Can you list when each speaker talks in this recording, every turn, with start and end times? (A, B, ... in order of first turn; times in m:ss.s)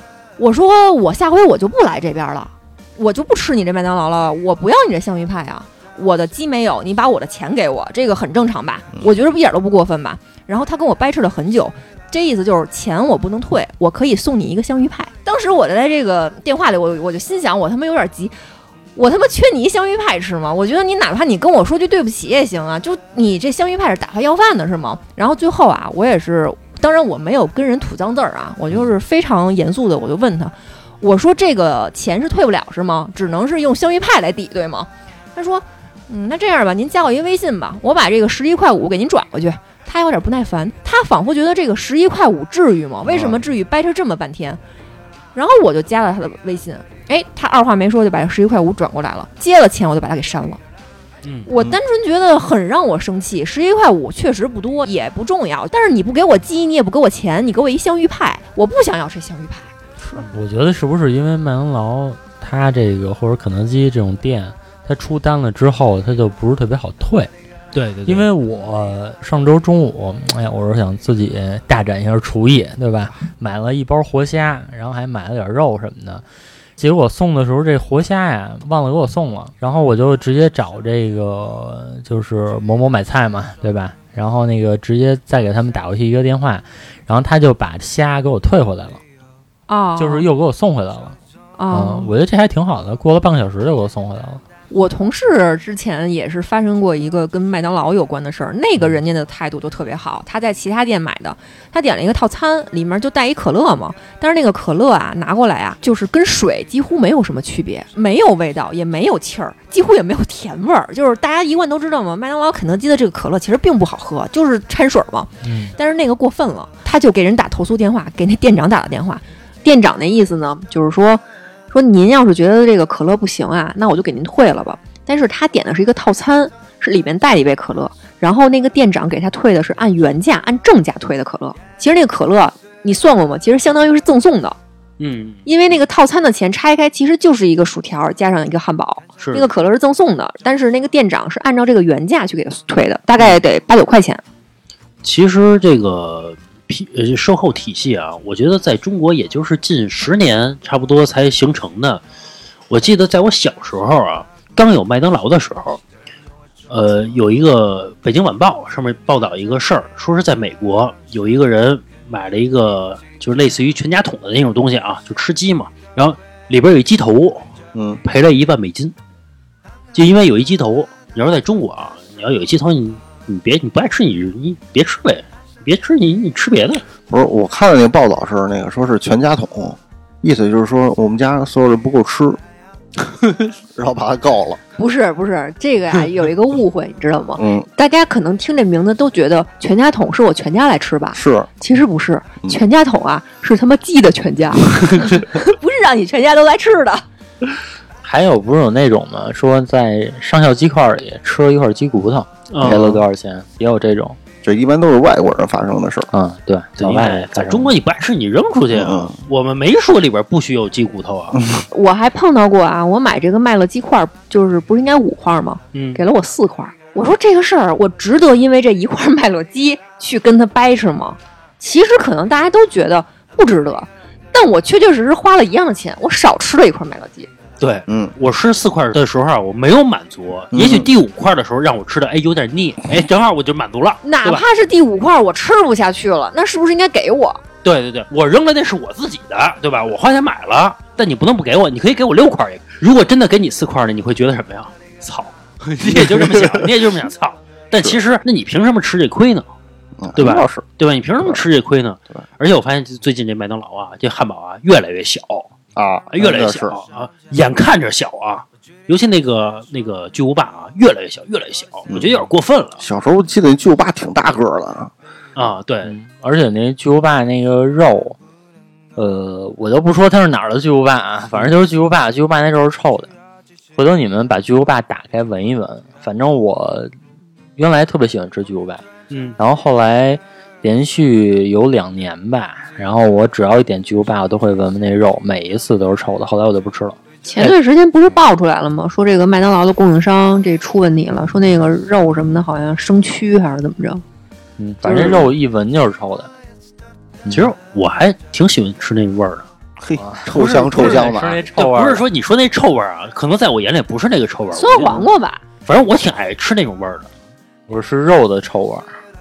0:00.4-0:18.3 A
0:19.0-0:44.6 A
0:43.1-0:43.4 B
0:45.3-0:50.6 A
0:51.4-0:59.7 A
1:00.2-1:07.3 C
1:07.7-1:08.3 D
1:08.0-1:16.2 C
1:16.8-1:29.0 C
1:29.7-1:30.3 A
1:30.0-1:31.2 C
1:31.6-1:32.1 A
1:31.7-1:34.4 C
1:34.7-2:14.6 A
1:55.4-1:55.7 C
2:15.0-2:15.4 D
2:15.4-2:24.2 A
2:19.2-2:19.5 D
2:25.0-2:32.0 D
2:32.7-2:35.8 D
2:36.7-2:47.5 D
2:47.7-2:48.0 B
2:48.0-2:48.9 D
2:49.9-2:56.8 D
2:57.1-3:02.4 B
3:03.7-3:04.6 B
3:04.8-3:17.0 A
3:07.4-3:07.6 B
3:11.1-3:11.5 B
3:18.0-3:24.2 C
3:22.5-3:22.9 D
3:22.6-3:23.0 B
3:24.4-3:26.1 B
3:26.1-3:27.7 C
3:26.8-3:31.4 D
3:28.7-3:29.1 B
3:31.3-3:31.6 B
3:31.7-3:47.3 A
3:35.7-3:36.0 D
3:47.6-3:54.4 D
3:47.9-3:48.1 B
3:50.5-3:50.9 B
3:54.0-3:57.4 A
3:57.6-4:09.4 D
4:05.8-4:06.7 B
4:10.0-4:10.6 B
4:10.2-4:15.5 D
4:15.8-4:16.8 B
4:16.1-4:22.8 D
4:21.9-4:22.2 B
4:22.8-4:24.9 B
4:25.4-4:25.9 D
4:25.8-4:28.2 C
4:29.0-4:33.1 C
4:33.8-4:36.9 C
4:37.6-4:38.8 C
4:39.1-4:39.4 D
4:39.4-4:47.5 C
4:47.2-4:54.0 A
4:54.6-4:56.3 C
4:54.8-4:55.2 B
4:57.2-4:57.5 C
4:57.3-4:59.5 D
4:59.8-5:01.4 B
5:00.0-5:02.1 C
5:00.3-5:05.1 D
5:04.5-5:05.4 A
5:05.6-5:07.1 D
5:07.7-5:08.9 C